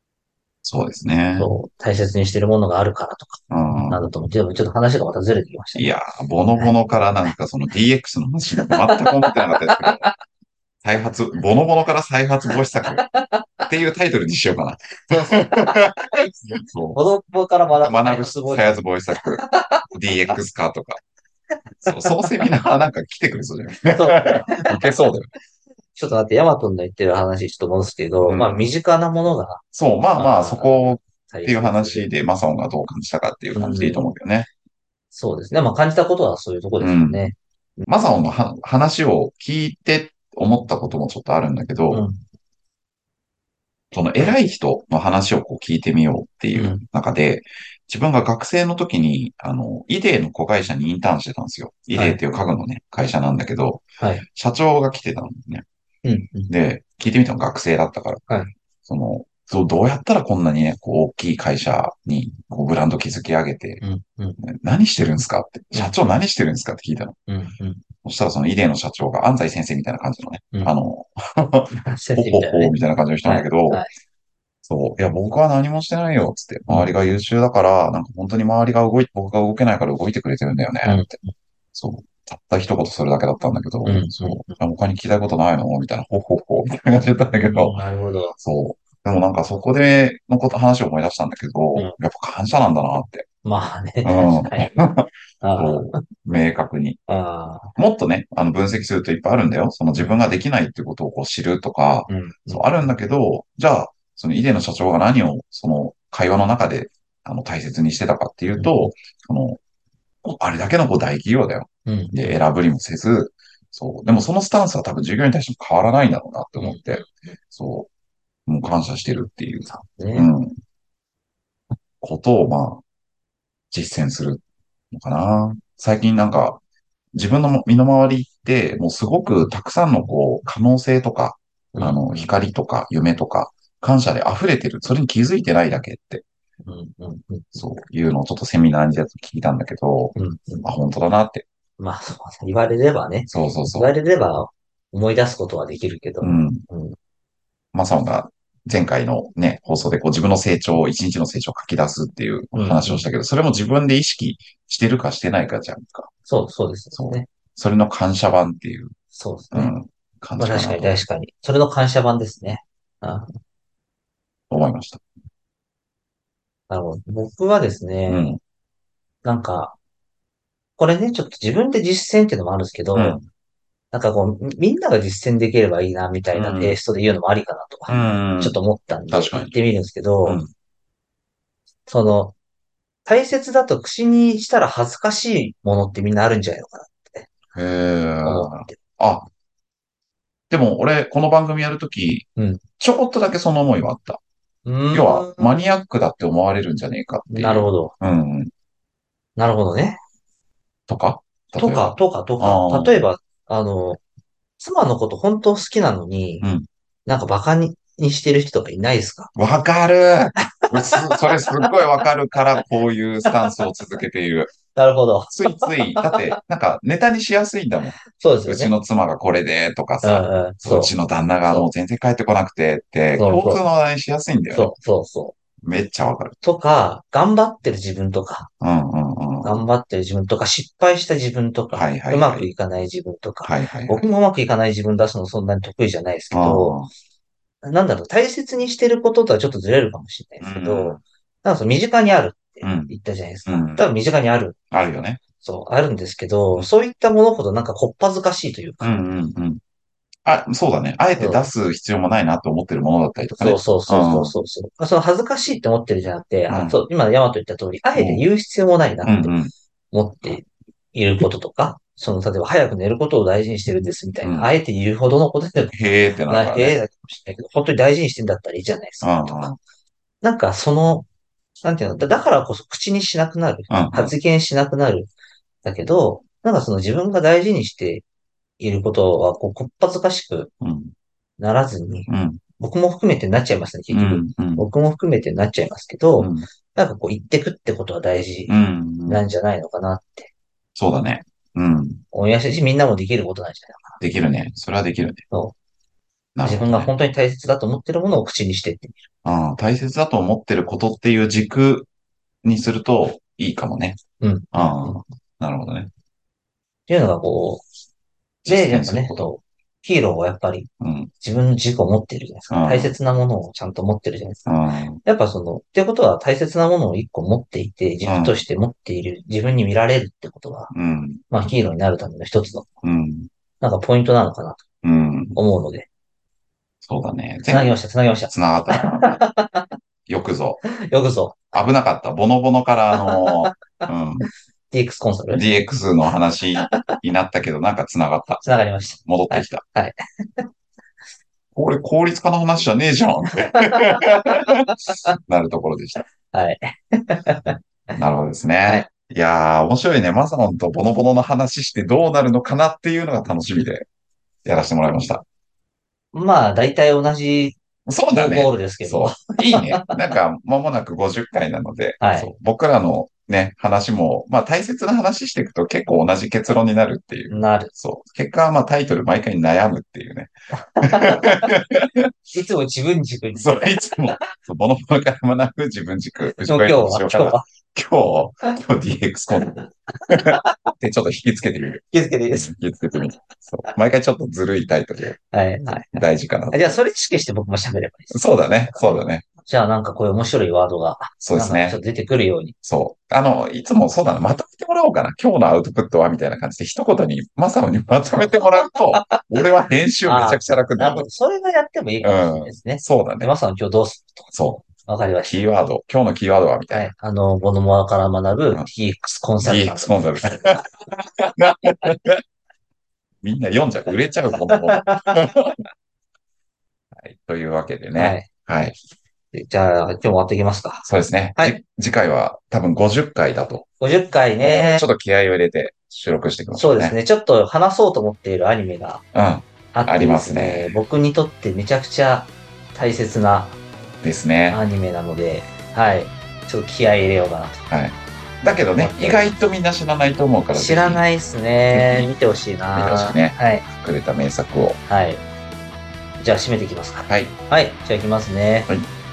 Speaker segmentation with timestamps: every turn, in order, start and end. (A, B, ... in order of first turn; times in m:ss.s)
0:00.6-0:01.5 A
0:01.4-0:05.9 B
0:03.5-0:04.1 A
0:05.8-0:10.1 A
0:08.6-0:10.1 B
0:10.8-0:13.0 A
0:13.0-0:13.7 B
0:13.7-0:17.0 A
0:15.1-0:15.9 B
0:16.9-0:20.4 B
0:17.8-0:21.0 A
0:21.8-0:25.3 A
0:21.9-0:22.5 B
0:23.9-0:24.8 B
0:26.0-0:29.6 B
0:28.3-0:28.6 A
0:29.7-0:34.5 A
0:30.2-0:32.1 B
0:33.5-0:34.1 B
0:35.1-0:37.9 B
0:36.8-0:37.2 A
0:37.9-0:42.0 A
0:41.9-0:42.2 B
0:43.9-0:55.6 A
0:46.5-0:46.8 B
0:51.9-0:52.2 B
0:54.0-0:54.2 B
0:56.0-0:56.5 B
0:56.5-0:58.2 A
0:58.3-0:58.5 B
0:58.9-1:03.8 A
1:03.8-1:04.4 B
1:04.4-1:07.2 A
1:07.3-1:07.8 B
1:08.0-1:13.8 A
1:11.8-1:13.9 B
1:14.6-1:21.1 A
1:20.8-1:21.3 B
1:21.7-1:27.8 A
1:23.8-1:24.6 B
1:27.4-1:28.4 B
1:28.4-1:33.3 A
1:33.4-1:34.7 B
1:34.0-1:37.0 A
1:35.4-1:36.0 B
1:37.1-1:37.8 B
1:37.8-1:49.6 A
1:42.1-1:42.7 B
1:48.6-1:48.9 B
1:50.2-1:57.9 A
1:51.9-1:52.4 B
1:56.6-1:57.1 B
1:58.5-2:00.6 A
1:59.7-2:00.3 B
2:02.0-2:02.8 A
2:03.7-2:06.6 A
2:07.1-2:16.2 A
2:11.7-2:12.4 B
2:16.6-2:17.5 B
2:17.5-2:21.4 A
2:20.2-2:20.7 B
2:21.8-2:27.0 B
2:23.3-2:23.9 A
2:26.2-2:26.6 A
2:27.7-2:36.1 A
2:32.5-2:33.1 B
2:36.3-2:37.3 B
2:36.9-2:38.9 A
2:39.1-2:39.7 B
2:39.5-2:41.0 A
2:40.4-2:43.4 B
2:44.5-2:45.0 A
2:46.7-2:48.4 B
2:48.1-2:48.4 A
2:49.2-2:49.8 B
2:50.8-2:53.2 B
2:53.0-2:53.3 A
2:53.9-3:00.4 B
2:56.3-2:56.8 A
2:57.9-2:58.6 A
2:59.1-2:59.5 A
3:00.2-3:00.5 A
3:01.9-3:02.4 B
3:03.1-3:07.3 B
3:07.5-3:09.3 A
3:08.2-3:08.8 B
3:10.5-3:12.3 A
3:12.4-3:12.6 B
3:12.8-3:14.2 A
3:14.6-3:15.8 B
3:14.9-3:18.5 A
3:17.3-3:17.9 B
3:19.4-3:20.0 B
3:20.9-3:23.0 A
3:21.6-3:24.0 B
3:24.6-3:26.5 B
3:26.4-3:26.7 A
3:27.1-3:29.3 B
3:29.4-3:34.5 A
3:30.6-3:32.0 B
3:33.2-3:33.6 B
3:34.7-3:36.3 B
3:35.3-3:44.7 A
3:38.1-3:38.7 B
3:40.0-3:40.9 B
3:41.4-3:41.7 B
3:43.2-3:43.6 B
3:44.5-3:45.4 B
3:45.6-3:46.4 A
3:46.4-3:48.5 B
3:48.6-3:49.6 A
3:49.4-3:56.8 B
3:51.7-3:52.5 A
3:53.4-3:54.0 A
3:56.3-3:56.9 A
3:57.6-4:04.6 B
4:00.4-4:01.0 A
4:02.6-4:02.9 A
4:03.5-4:03.8 A
4:04.7-4:05.2 A
4:05.4-4:09.0 B
4:08.8-4:09.6 A
4:10.2-4:14.4 A
4:11.2-4:11.4 B
4:13.4-4:19.4 B
4:16.5-4:16.9 A
4:18.0-4:18.3 A
4:19.0-4:19.5 A
4:19.9-4:29.6 B
4:24.2-4:24.5 A
4:25.7-4:26.8 A
4:29.0-4:29.6 A
4:30.2-4:31.1 B
4:31.6-4:35.1 B
4:33.7-4:34.1 A
4:35.6-4:38.0 B
4:38.6-4:40.5 B
4:40.6-4:40.9 A
4:41.4-4:48.6 B
4:42.1-4:42.4 A
4:43.9-4:44.7 A
4:46.2-4:46.5 A
4:48.5-4:49.2 A
4:49.1-4:50.3 B
4:50.8-4:52.0 A
4:52.1-4:54.0 B
4:54.0-4:55.2 A
4:56.4-4:56.9 A
4:56.4-4:59.0 B
4:59.2-5:01.9 A
5:02.4-5:04.0 A
5:04.2-5:05.0 B
5:04.5-5:05.9 A
5:06.9-5:07.6 B
5:08.4-5:09.2 A
5:08.5-5:10.7 B
5:10.8-5:11.1 A
5:11.2-5:14.5 B
5:12.5-5:13.0 A
5:14.5-5:15.0 A
5:15.0-5:20.7 B
5:18.1-5:18.4 A
5:20.7-5:21.2 A
5:21.3-5:22.7 B
5:22.8-5:23.3 A
5:23.6-5:24.6 B
5:24.8-5:25.4 A
5:25.4-5:25.9 B
5:26.8-5:27.8 A
5:27.5-5:29.8 B
5:28.3-5:29.2 A
5:30.1-5:30.6 A
5:30.6-5:31.5 B
5:31.5-5:34.3 A
5:32.9-5:33.9 B
5:34.7-5:35.4 B
5:35.3-5:39.6 A
5:36.6-5:37.0 B
5:38.4-5:40.5 B
5:41.6-5:46.1 A
5:43.5-5:45.2 B
5:46.3-5:47.9 B
5:48.0-5:53.9 A
5:54.4-5:55.2 A
5:56.1-5:57.6 B
5:57.9-6:12.1 A
5:58.1-6:00.0 B
6:02.0-6:02.3 B
6:07.3-6:07.7 B
6:10.6-6:11.5 B
6:12.3-6:14.0 B
6:13.4-6:25.2 A
6:16.4-6:17.4 B
6:19.5-6:20.7 B
6:21.9-6:22.5 B
6:25.3-6:32.6 B
6:25.9-6:26.8 A
6:28.1-6:29.2 A
6:31.2-6:31.8 A
6:32.6-6:41.1 A
6:38.2-6:39.2 B
6:40.0-6:44.3 B
6:42.0-6:43.3 A
6:44.3-6:44.7 A
6:44.8-6:45.6 B
6:45.3-6:46.9 A
6:46.7-6:50.4 B
6:49.4-6:52.2 A
6:53.2-6:55.6 A
6:54.5-6:55.2 B
6:57.0-6:58.8 A
6:58.0-6:58.3 B
6:59.3-7:01.6 B
7:00.8-7:03.7 A
7:03.8-7:04.9 B
7:04.4-7:07.0 A
7:06.5-7:09.0 B
7:09.1-7:10.8 A
7:09.7-7:13.6 B
7:14.0-7:14.6 A
7:14.5-7:17.6 B
7:17.7-7:21.0 A
7:18.8-7:19.3 B
7:20.5-7:23.7 B
7:21.7-7:22.1 A
7:22.7-7:24.8 A
7:24.9-7:25.2 B
7:26.2-7:28.7 B
7:27.1-7:27.4 A